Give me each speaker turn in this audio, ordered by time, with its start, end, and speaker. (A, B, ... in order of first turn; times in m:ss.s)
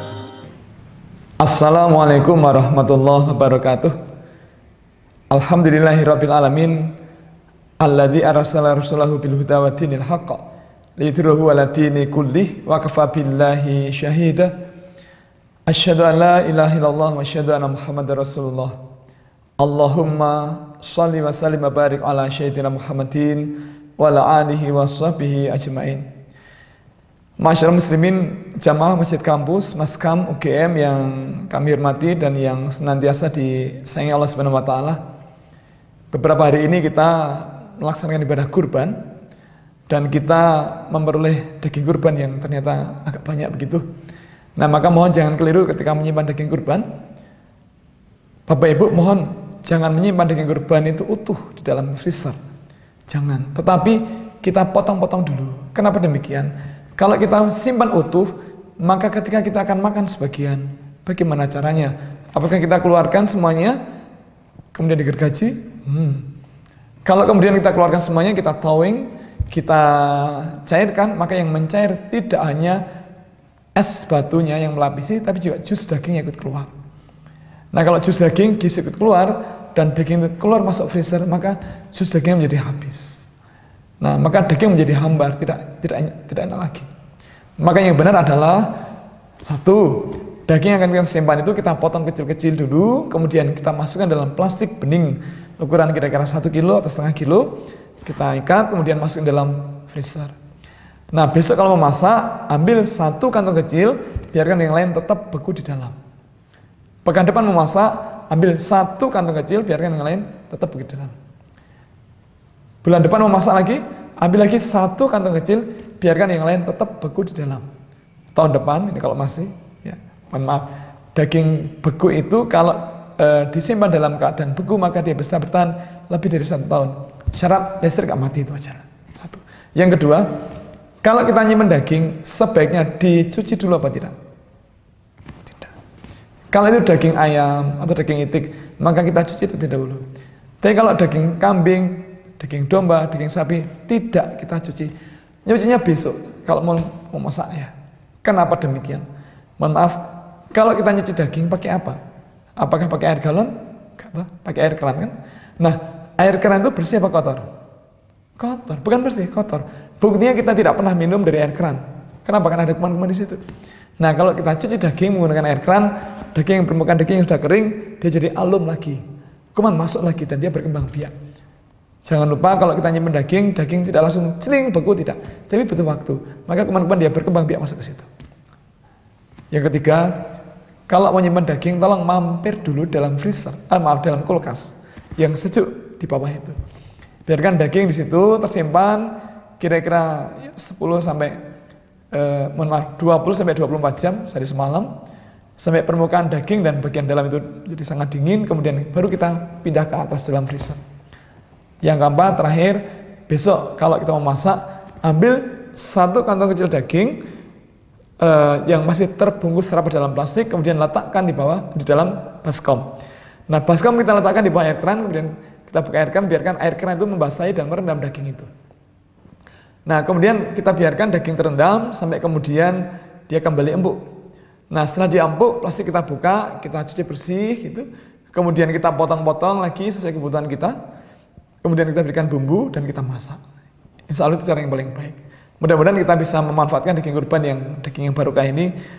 0:01.4-0:04.0 A
0:05.3-0:07.0 A
0:07.8-0:10.4 A
0:11.0-0:14.6 A
0:15.7-0:18.8 A
0:19.6-0:26.1 A
0:27.4-0:35.0 A
0:36.1-0:39.0 A
0:39.9-0:43.9 A
0:44.6-0:46.9 A
0:48.5-0:52.4 A
0:53.1-1:03.8 A
1:04.7-1:06.3 A
1:07.0-1:12.8 A
1:13.8-1:16.7 A
1:17.7-1:23.3 A
1:24.0-1:26.9 A
1:27.6-1:28.7 A
1:29.4-1:40.3 A
1:41.1-1:46.0 A
1:47.0-1:51.2 A
1:52.8-1:57.7 A
1:58.3-2:10.3 A
2:11.0-2:14.2 A
2:16.5-2:20.0 A
2:20.6-2:24.9 A
2:25.4-2:27.7 A
2:28.2-2:29.1 A
2:29.6-2:32.0 A
2:32.6-2:37.5 A
2:38.4-2:43.4 A
2:44.0-2:49.0 A
2:49.5-2:51.1 A
2:52.0-2:58.1 A
2:59.5-3:00.2 A
3:00.9-3:06.6 A
3:07.3-3:11.4 A
3:12.1-3:14.9 A
3:15.6-3:20.8 A
3:21.8-3:27.2 A
3:28.2-3:32.9 A
3:33.5-3:38.5 A
3:39.9-3:44.0 A
3:44.7-3:50.8 A
3:51.6-3:53.4 A
3:54.1-3:58.7 A